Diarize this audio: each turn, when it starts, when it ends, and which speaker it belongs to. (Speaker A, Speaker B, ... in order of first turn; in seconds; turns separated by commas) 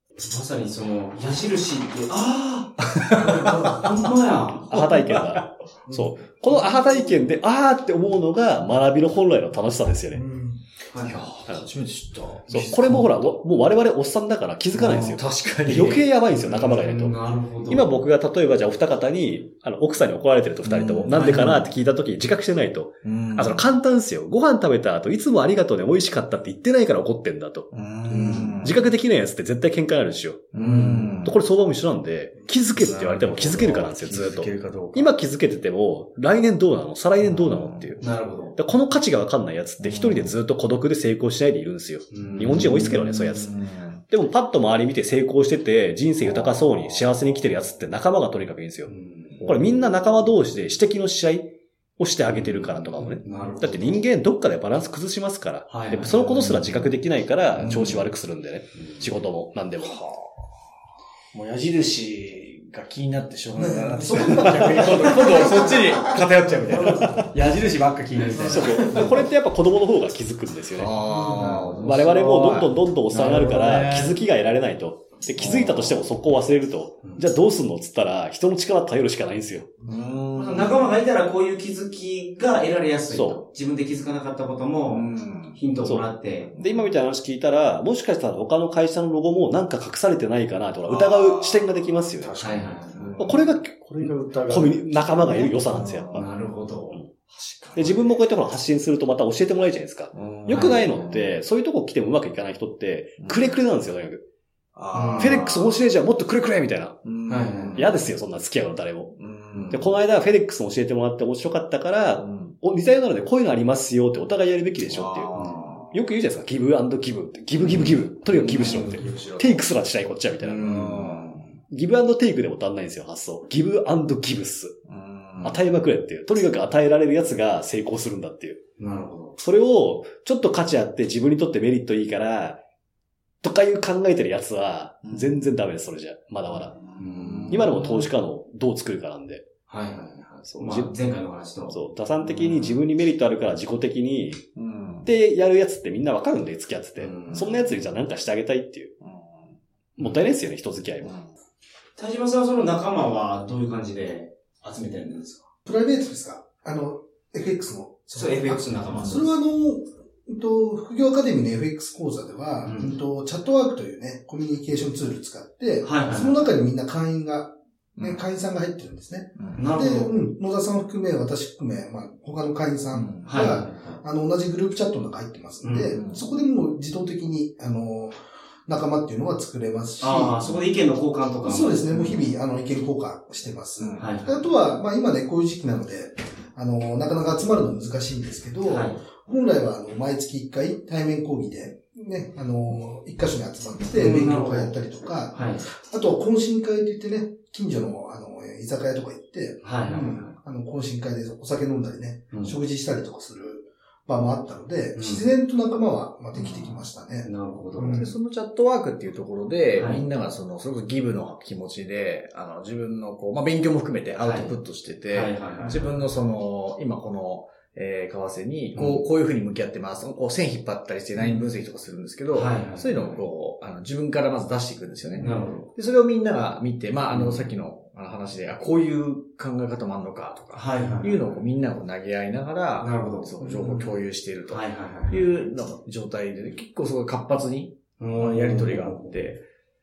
Speaker A: 0.1-4.8, Speaker B: 2.9-3.7, Speaker B: 4.7-5.5, Speaker C: 4.7-10.2, Speaker D: 5.9-7.2, Speaker D: 10.1-10.6, Speaker A: 10.9-11.3, Speaker B: 10.9-13.3, Speaker C: 12.5-27.7, Speaker B: 14.7-16.0, Speaker A: 16.1-17.9, Speaker B: 20.6-21.7, Speaker A: 21.1-21.5, Speaker B: 23.0-23.6, Speaker B: 27.7-28.8, Speaker A: 28.1-28.7, Speaker C: 28.6-30.5, Speaker B: 30.5-31.4, Speaker A: 30.5-31.2, Speaker C: 31.2-38.0, Speaker B: 32.7-35.1, Speaker B: 37.2-38.0, Speaker A: 38.0-38.5, Speaker C: 38.6-48.9, Speaker B: 39.8-40.3, Speaker A: 42.1-42.7, Speaker B: 42.3-44.0, Speaker B: 46.2-47.5, Speaker A: 48.9-49.5, Speaker B: 49.3-50.2, Speaker C: 49.4-60.0, Speaker A: 52.3-54.0, Speaker A: 55.7-56.2, Speaker B: 56.1-56.9, Speaker A: 57.6-58.0, Speaker B: 57.6-58.0, Speaker B: 59.8-60.3, Speaker B: 61.3-69.3, Speaker D: 63.5-66.4, Speaker A: 66.7-67.1, Speaker A: 68.2-68.7, Speaker C: 68.5-71.0, Speaker B: 70.7-74.2, Speaker A: 71.1-71.9, Speaker C: 71.8-79.7, Speaker B: 75.4-76.1, Speaker B: 79.8-80.9, Speaker A: 80.3-86.5, Speaker C: 83.1-83.5, Speaker B: 84.9-85.6, Speaker C: 85.8-92.4, Speaker B: 86.5-86.9, Speaker B: 90.8-96.3, Speaker A: 92.4-93.2, Speaker C: 93.2-96.3, Speaker A: 96.1-97.0, Speaker B: 97.3-98.2, Speaker C: 97.8-104.2, Speaker B: 100.1-101.4, Speaker A: 100.5-100.8, Speaker B: 103.2-103.6, Speaker B: 104.7-105.8, Speaker A: 104.9-105.4, Speaker C: 105.2-107.0, Speaker B: 107.0-108.0, Speaker A: 107.3-107.8, Speaker C: 107.7-109.1, Speaker B: 109.2-109.9, Speaker C: 109.7-115.3, Speaker B: 112.2-112.5, Speaker B: 114.8-115.9, Speaker A: 115.3-115.8, Speaker C: 115.9-124.8, Speaker A: 117.7-119.1, Speaker B: 118.3-119.7, Speaker B: 120.4-121.5, Speaker B: 124.9-125.6, Speaker C: 125.4-128.6, Speaker A: 128.8-129.4, Speaker C: 129.4-132.6, Speaker C: 133.4-136.8, Speaker B: 135.1-135.5, Speaker B: 136.7-138.1, Speaker A: 136.9-137.7, Speaker C: 137.5-139.5, Speaker A: 139.7-141.8, Speaker C: 140.5-140.9, Speaker C: 141.7-144.4, Speaker A: 142.4-142.7, Speaker B: 144.6-145.1, Speaker C: 145.0-148.9, Speaker A: 147.0-147.5, Speaker B: 149.0-149.6, Speaker C: 149.9-151.2, Speaker B: 151.0-151.3, Speaker A: 151.9-155.5, Speaker D: 155.6-180.5, Speaker A: 158.1-159.3, Speaker B: 158.9-159.2, Speaker A: 162.6-163.0, Speaker A: 165.8-166.5, Speaker B: 169.4-169.6, Speaker A: 169.6-170.1, Speaker B: 172.9-173.4, Speaker A: 173.2-174.0, Speaker A: 175.6-176.0, Speaker B: 175.9-176.2, Speaker A: 180.0-182.2, Speaker D: 181.4-208.1, Speaker B: 183.8-184.1, Speaker A: 184.0-184.5, Speaker A: 188.6-189.0, Speaker A: 193.9-194.7, Speaker A: 195.3-195.6, Speaker A: 199.6-200.3, Speaker A: 202.3-202.6, Speaker A: 204.9-205.3, Speaker A: 206.3-208.1, Speaker B: 207.9-239.4, Speaker A: 209.7-210.0, Speaker A: 214.2-214.5, Speaker A: 215.1-216.0, Speaker A: 218.7-219.0, Speaker A: 221.2-221.5, Speaker A: 222.3-223.2, Speaker A: 225.2-225.7, Speaker A: 227.1-227.5, Speaker A: 230.5-231.3, Speaker A: 232.8-233.9, Speaker A: 234.5-235.5, Speaker A: 238.0-239.2